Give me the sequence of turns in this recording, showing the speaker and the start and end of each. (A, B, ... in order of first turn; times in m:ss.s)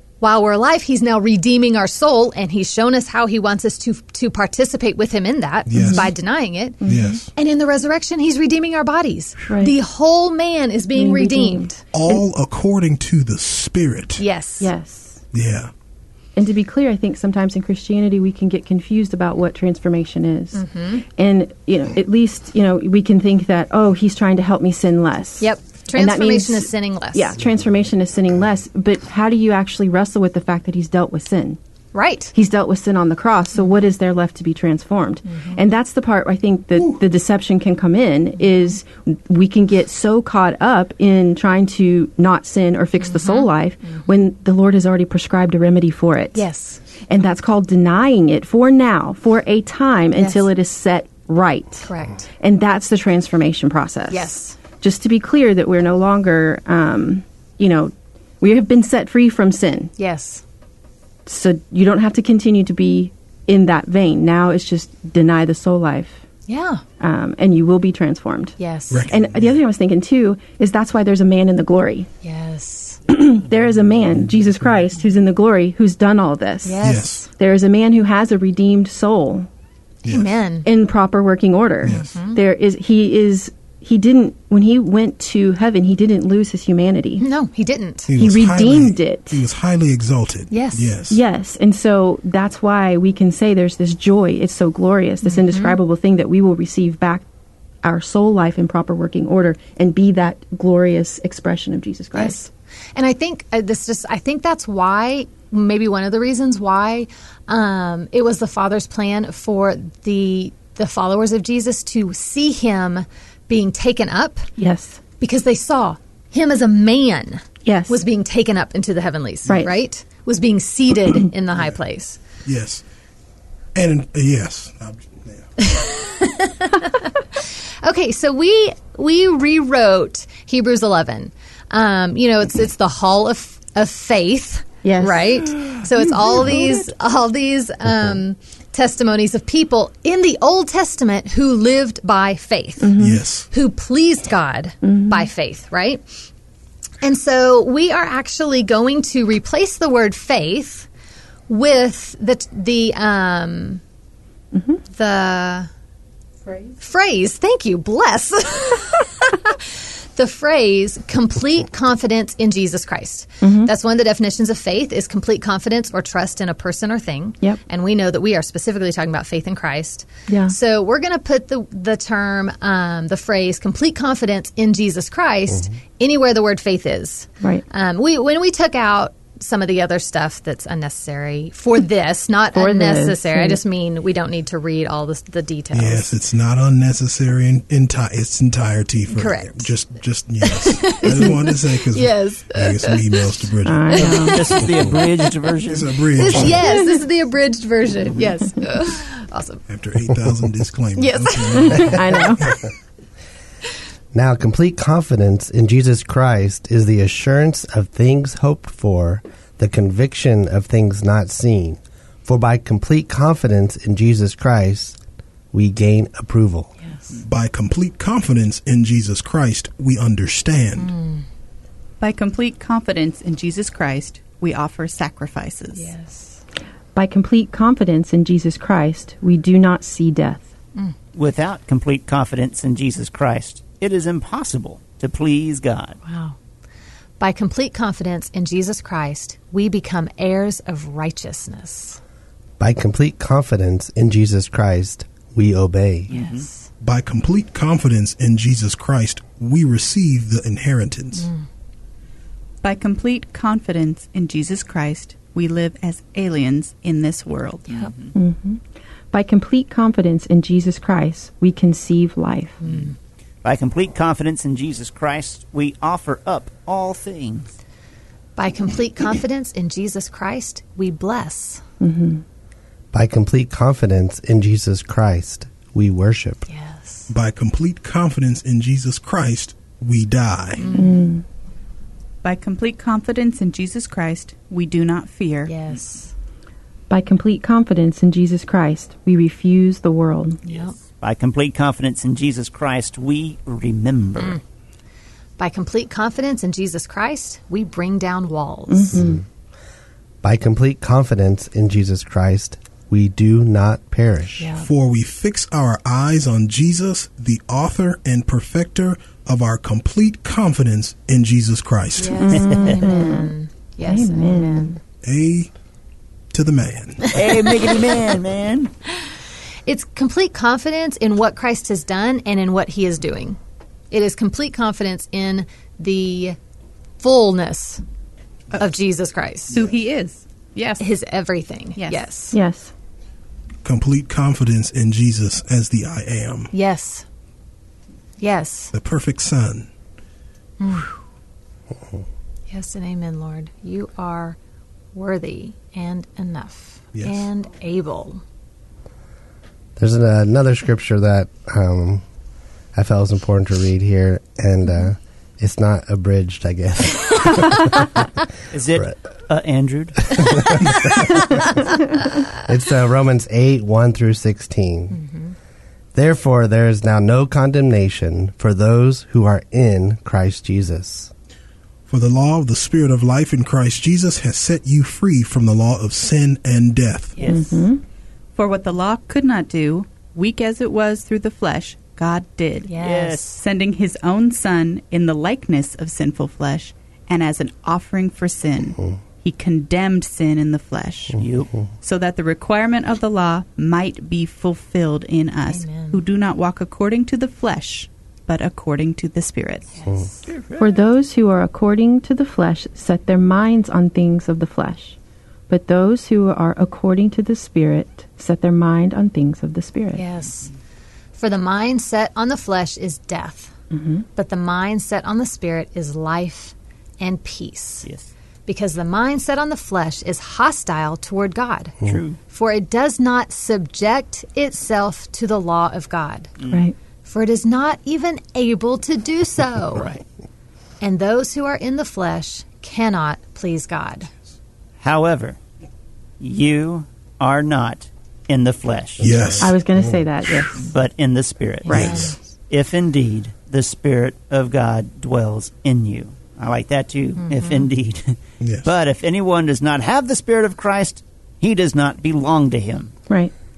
0:00.2-0:06.8 A
0:05.7-0:06.1 B
0:05.7-0:06.1 C
0:06.8-0:07.2 C
0:06.8-0:07.3 B
0:07.3-0:11.8 A
0:09.4-0:09.8 C
0:11.0-0:12.2 C
0:11.9-0:14.2 B
0:14.2-0:14.7 A
0:14.6-0:15.2 C
0:15.3-0:15.7 B
0:16.4-0:20.6 C
0:20.5-0:21.0 A
0:21.1-0:31.6 C
0:25.4-0:27.4 A
0:31.9-0:32.3 A
0:32.3-0:46.4 C
0:35.3-0:35.6 A
0:43.0-0:44.0 A
0:46.3-0:46.8 A
0:47.1-0:59.9 C
0:50.2-0:50.5 A
0:51.8-0:52.3 A
0:54.1-0:54.6 A
1:00.0-1:00.4 A
1:01.2-1:06.2 C
1:06.5-1:06.8 A
1:07.0-1:12.1 C
1:08.6-1:09.0 A
1:08.9-1:09.4 B
1:12.2-1:13.0 A
1:13.1-1:19.5 C
1:16.6-1:17.3 A
1:16.8-1:17.2 B
1:20.0-1:20.7 A
1:20.6-1:27.2 C
1:21.9-1:22.4 A
1:27.2-1:28.1 A
1:28.1-1:31.2 B
1:28.2-1:29.4 C
1:30.5-1:30.9 A
1:31.1-1:37.2 C
1:35.2-1:35.8 A
1:37.8-1:42.5 C
1:42.1-1:54.5 A
1:54.6-1:55.0 C
1:55.2-2:02.2 A
1:57.6-1:58.0 C
2:02.4-2:02.8 B
2:03.7-2:05.5 B
2:05.6-2:23.0 A
2:14.8-2:15.5 C
2:16.4-2:16.7 C
2:22.8-2:23.2 C
2:23.0-2:23.5 B
2:23.5-2:26.0 A
2:24.8-2:25.3 C
2:27.0-2:30.9 A
2:31.5-2:33.8 A
2:34.5-2:34.8 C
2:34.9-2:35.7 A
2:36.8-3:06.1 A
2:43.4-2:43.7 C
2:50.3-2:50.5 C
3:02.5-3:03.6 C
3:05.7-3:15.0 B
3:09.1-3:09.7 A
3:10.4-3:13.3 A
3:13.6-3:14.5 C
3:13.9-3:14.6 A
3:14.0-3:16.5 D
3:15.7-3:16.6 B
3:16.1-3:19.6 A
3:16.5-3:17.0 C
3:19.7-3:22.6 B
3:21.0-3:22.0 A
3:21.5-3:22.4 C
3:24.1-3:35.0 E
3:35.5-3:36.7 E
3:36.8-3:37.2 A
3:37.2-3:40.9 B
3:40.8-3:41.2 A
3:42.0-3:45.9 F
3:45.7-3:46.4 A
3:46.9-3:50.5 C
3:51.1-3:56.0 D
3:56.0-3:56.4 A
3:57.2-4:02.0 A
4:02.6-4:06.1 E
4:06.1-4:06.7 A
4:06.1-4:06.4 D
4:06.8-4:11.3 B
4:11.1-4:11.4 A
4:12.6-4:17.8 F
4:17.7-4:18.1 D
4:18.1-4:18.6 C
4:19.1-4:22.6 C
4:22.6-4:22.9 A
4:23.4-4:27.5 D
4:28.4-4:31.6 A
4:31.8-4:32.2 C
4:32.9-4:36.5 E
4:36.5-4:37.1 A
4:37.1-4:40.7 B
4:40.6-4:41.0 A
4:40.7-4:41.2 C
4:42.2-4:45.5 F
4:45.4-4:46.1 A
4:46.9-4:50.4 C
4:50.4-4:50.8 A
4:51.0-4:54.4 D
4:55.4-4:59.0 A
4:58.7-4:59.2 C
4:58.9-4:59.2 E
5:00.2-5:04.5 E
5:04.4-5:04.7 A
5:04.6-5:12.3 B
5:12.0-5:14.8 A
5:12.1-5:13.3 C
5:13.8-5:14.7 C
5:15.0-5:15.5 B
5:16.3-5:17.2 B
5:17.0-5:17.8 A
5:17.1-5:18.7 D
5:19.6-5:23.4 A
5:23.9-5:26.4 A
5:27.0-5:27.8 A
5:28.5-5:29.6 A
5:29.5-5:30.8 F
5:30.8-5:32.4 A
5:31.8-5:32.0 F
5:32.3-5:32.7 C
5:33.6-5:36.5 B
5:36.5-5:37.0 A
5:38.2-5:38.7 A
5:38.7-5:39.7 B
5:40.6-5:41.0 A
5:42.5-5:44.4 A
5:44.9-5:48.2 A
5:46.9-5:47.2 B
5:49.8-5:52.0 E
5:52.7-5:57.9 E
5:58.5-6:00.5 D
6:00.2-6:00.8 E
6:02.4-6:05.0 E
6:04.9-6:05.3 A
6:05.9-6:11.1 E
6:11.9-6:17.2 B
6:17.2-6:17.6 A
6:17.3-6:17.8 C
6:18.3-6:22.7 F
6:22.6-6:23.3 A
6:22.8-6:23.4 D
6:23.2-6:31.2 F
6:31.2-6:31.5 D
6:31.8-6:39.7 F
6:35.4-6:36.0 A
6:39.7-6:40.3 A
6:40.3-6:40.7 D
6:40.6-6:45.0 C
6:45.5-6:50.0 C
6:49.9-6:50.5 A
6:51.1-6:53.5 A
6:53.7-6:54.0 C
6:54.2-6:57.9 A
6:58.4-7:01.7 A
7:01.8-7:02.2 D
7:02.3-7:06.3 A
7:06.4-7:06.6 D
7:06.5-7:06.7 C
7:07.0-7:09.9 A
7:10.8-7:14.1 A
7:14.8-7:15.4 D
7:16.2-7:19.1 D
7:19.0-7:19.6 B
7:19.0-7:19.9 E
7:19.4-7:20.7 C
7:20.6-7:32.9 D
7:21.6-7:22.2 A
7:21.7-7:22.0 C
7:21.7-7:22.1 B
7:27.2-7:27.6 A
7:28.4-7:28.7 B